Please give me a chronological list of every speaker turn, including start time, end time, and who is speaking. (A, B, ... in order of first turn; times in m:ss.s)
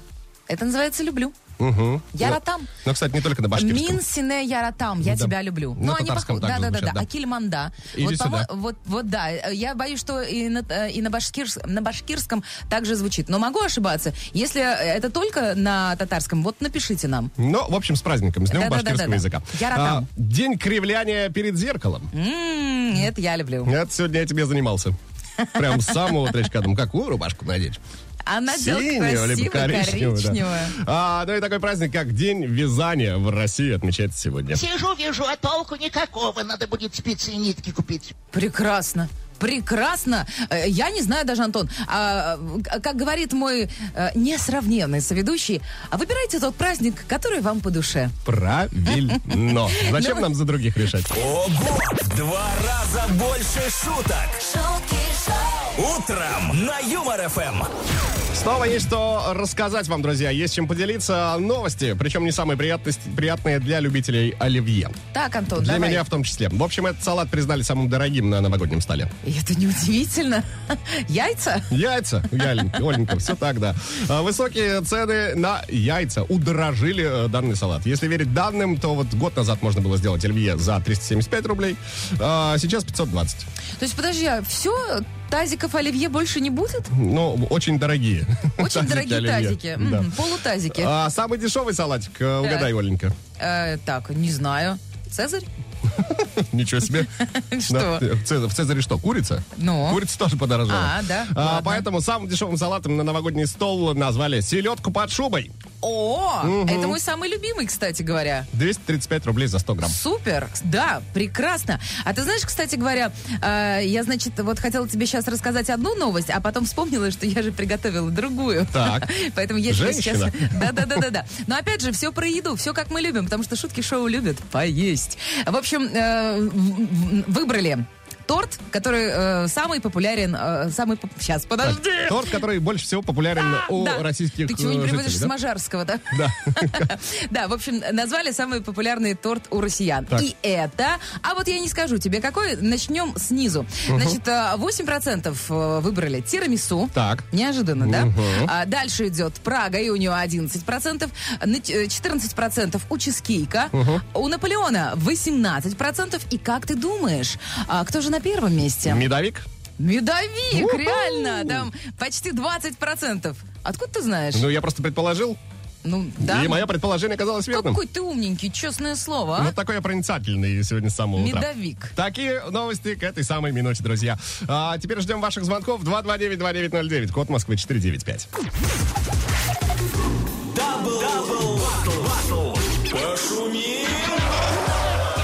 0:00.5-0:01.3 A
0:01.6-0:04.0 B
0:02.1-0:02.7 A
0:03.5-0:17.3 A
0:05.0-0:07.0 B
0:07.9-0:08.5 B
0:17.4-0:22.1 B
0:18.5-0:20.1 A
0:22.1-0:23.7 A
0:23.6-0:24.9 B
0:25.5-0:27.8 B
0:25.8-0:26.1 A
0:28.2-0:30.8 A
0:28.5-0:34.6 B
0:34.5-0:38.1 C
0:38.3-0:48.1 A
0:48.2-0:51.1 B
0:49.8-0:50.3 A
0:51.1-0:54.4 D
0:55.7-0:57.7 D
0:58.3-1:04.9 B
1:05.1-1:06.0 A
1:05.6-1:09.1 B
1:09.2-1:11.7 A
1:11.7-1:23.5 B
1:23.8-1:26.9 A
1:26.9-1:30.1 B
1:28.6-1:30.9 A
1:30.7-1:33.1 B
1:32.4-1:32.7 A
1:33.4-1:35.5 A
1:35.9-1:37.1 B
1:37.2-1:38.0 A
1:37.6-1:45.5 B
1:39.5-1:40.0 A
1:40.7-1:41.8 A
1:45.8-1:48.5 A
1:46.4-1:47.0 B
1:48.5-1:50.0 B
1:49.8-2:12.4 A
1:58.7-1:59.1 B
1:59.7-2:01.0 B
2:11.6-2:15.3 B
2:13.4-2:39.0 A
2:16.1-2:16.9 B
2:23.9-2:24.2 B
2:26.9-2:27.2 B
2:27.8-2:28.5 B
2:33.7-2:34.0 B
2:38.8-2:39.4 B
2:39.8-2:44.5 A
2:40.5-2:41.7 B
2:44.3-2:45.4 B
2:45.8-2:46.6 A
2:46.2-2:47.8 B
2:47.5-2:49.5 A
2:49.4-2:58.3 B
2:51.1-2:51.9 A
3:00.5-3:04.3 D